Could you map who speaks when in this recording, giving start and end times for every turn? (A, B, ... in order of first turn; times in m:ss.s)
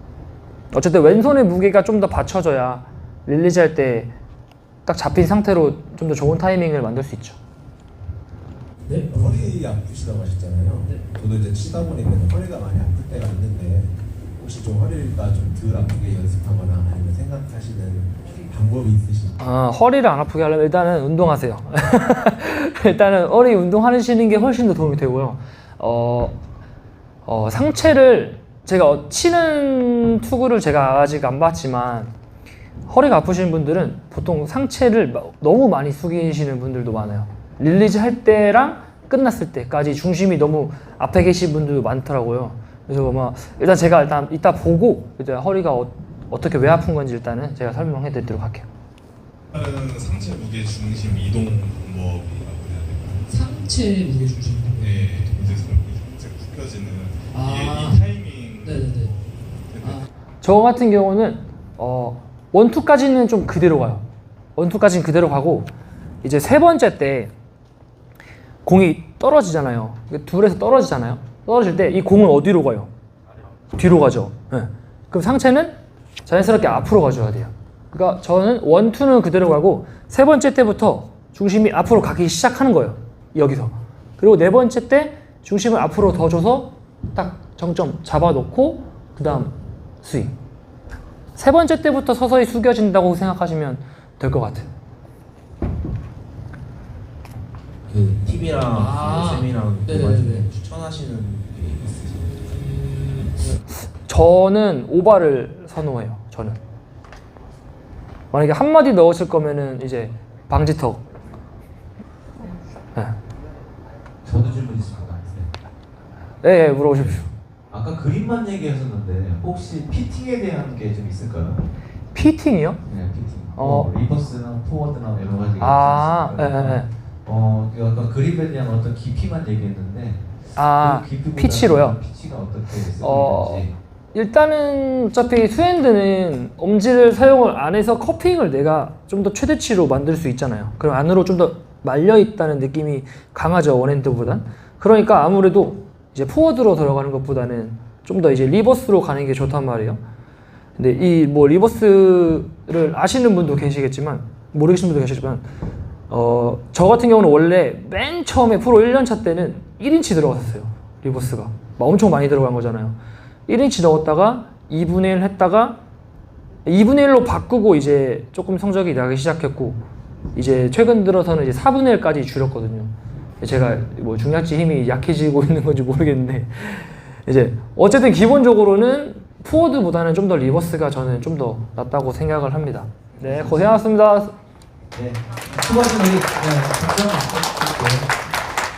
0:00.7-0:04.1 A
0:04.8-0:07.4 A
0:08.9-0:09.5 B
0:09.1-0:19.4 C
0:19.4-0:26.4 A
0:27.2-0:32.1 A
0:32.9-0:48.7 A
0:49.5-0:53.3 D
0:53.3-0:55.6 B
0:54.8-0:59.1 D
0:57.3-0:58.0 B
0:58.6-0:59.2 B
0:59.7-1:00.0 D
1:00.4-1:04.0 A
1:04.6-1:05.7 A
1:06.2-1:07.3 A
1:08.6-1:12.9 A
1:13.7-1:30.3 A
1:31.4-1:34.7 A
1:37.9-1:42.5 E
1:38.7-1:40.5 B
1:43.2-1:43.6 B
1:44.0-1:46.6 A
1:48.3-1:51.0 A
1:54.2-1:55.5 E
1:56.4-1:57.3 A
1:57.7-2:01.6 E
2:02.1-2:02.8 A
2:02.8-2:13.7 E
2:03.5-2:03.9 A
2:05.6-2:06.9 A
2:10.6-2:12.0 A
2:13.0-2:30.0 A
2:30.8-2:35.5 A
2:36.1-2:43.0 A
2:43.5-2:45.8 A
2:46.6-2:49.8 A
2:50.3-3:04.3 A
3:03.2-3:03.8 E
3:04.9-3:08.1 E